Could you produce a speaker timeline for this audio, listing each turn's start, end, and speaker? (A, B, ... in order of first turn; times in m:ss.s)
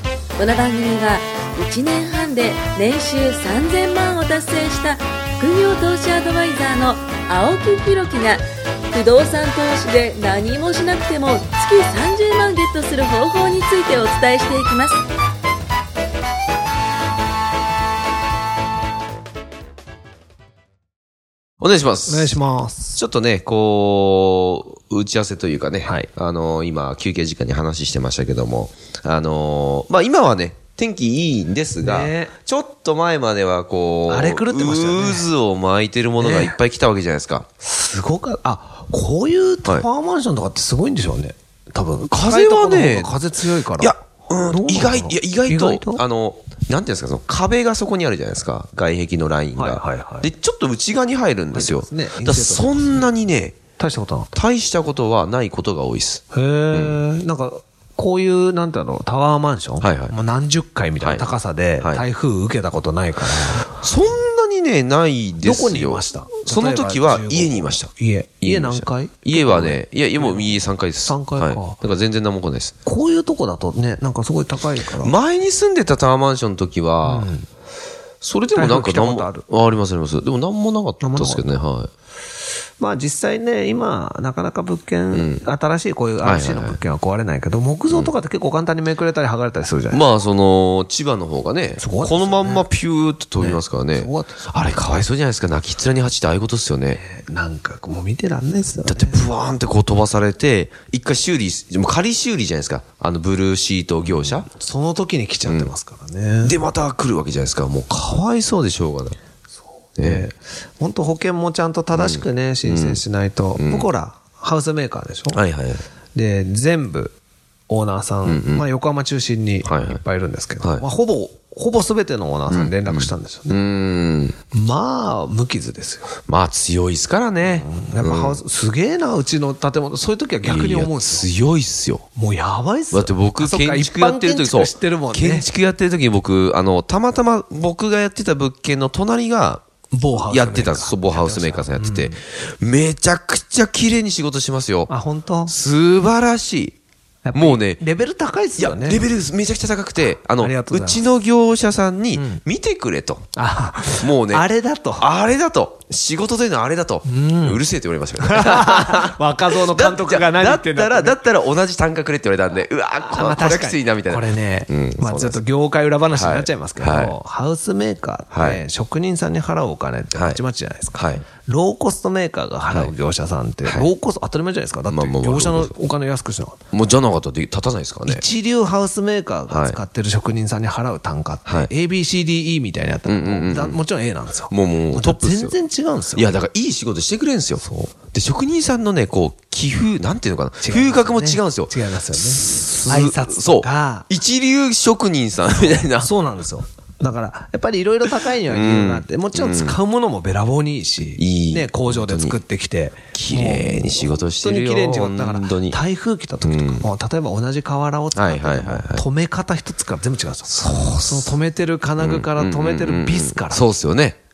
0:00.4-0:15.0 A
0:21.6-0:22.4 B
0:22.1-0:23.0 C
0:23.0-0:37.4 B
0:25.8-0:26.1 C
0:31.8-0:32.3 C
0:34.1-0:35.3 C
0:36.2-0:36.6 C
0:37.6-0:46.0 C
0:42.1-0:43.1 B
0:43.8-0:53.6 B
0:49.6-0:50.3 C
0:51.5-0:53.1 C
0:53.8-0:54.3 C
0:54.3-0:57.0 B
0:56.3-1:03.8 C
0:59.8-1:00.1 B
1:01.0-1:02.0 B
1:03.7-1:07.9 B
1:05.4-1:11.8 C
1:08.4-1:12.7 B
1:12.8-1:15.2 C
1:15.0-1:17.3 B
1:17.0-1:17.5 C
1:18.2-1:21.9 B
1:18.5-1:19.4 C
1:21.0-1:21.5 C
1:22.8-1:30.0 C
1:25.1-1:25.4 B
1:26.2-1:26.8 B
1:29.9-1:37.0 B
1:31.8-1:32.7 C
1:33.4-1:34.5 C
1:36.9-1:39.2 C
1:38.8-1:44.5 B
1:44.2-1:46.6 C
1:46.4-1:49.2 B
1:50.0-1:55.4 C
1:50.0-1:50.3 B
1:51.9-1:53.0 B
1:53.6-1:53.9 B
1:55.3-1:55.8 B
1:56.1-1:57.2 C
1:57.7-2:03.6 C
1:58.2-1:58.6 B
1:59.6-2:00.0 B
2:02.5-2:04.4 B
2:04.5-2:06.1 C
2:06.3-2:08.4 B
2:07.4-2:11.3 C
2:10.4-2:12.0 B
2:12.2-2:15.5 C
2:12.9-2:19.6 B
2:19.9-2:22.2 C
2:20.1-2:24.9 B
2:24.9-2:25.5 C
2:25.5-2:26.8 B
2:27.2-2:29.1 C
2:27.3-2:27.8 B
2:28.6-2:33.3 B
2:30.2-2:31.0 C
2:32.2-2:32.4 C
2:33.4-2:35.1 C
2:34.0-2:34.5 B
2:35.0-2:45.4 B
2:37.0-2:37.6 C
2:38.2-2:41.2 C
2:43.1-2:56.6 C
2:46.1-2:47.2 B
2:48.3-2:48.6 B
2:50.1-2:50.4 B
2:51.0-2:51.2 B
2:54.9-2:55.7 B
2:56.7-2:58.2 B
2:58.1-3:06.3 C
2:59.5-2:59.8 B
3:01.4-3:01.7 B
3:03.0-3:03.8 B
3:04.5-3:05.6 B
3:06.1-3:16.1 B
3:07.6-3:07.9 C
3:10.6-3:14.1 C
3:15.6-3:33.7 C
3:18.4-3:19.8 B
3:21.2-3:22.4 B
3:23.1-3:25.8 B
3:26.4-3:26.9 B
3:28.1-3:29.0 B
3:30.6-3:31.3 B
3:32.0-3:34.2 B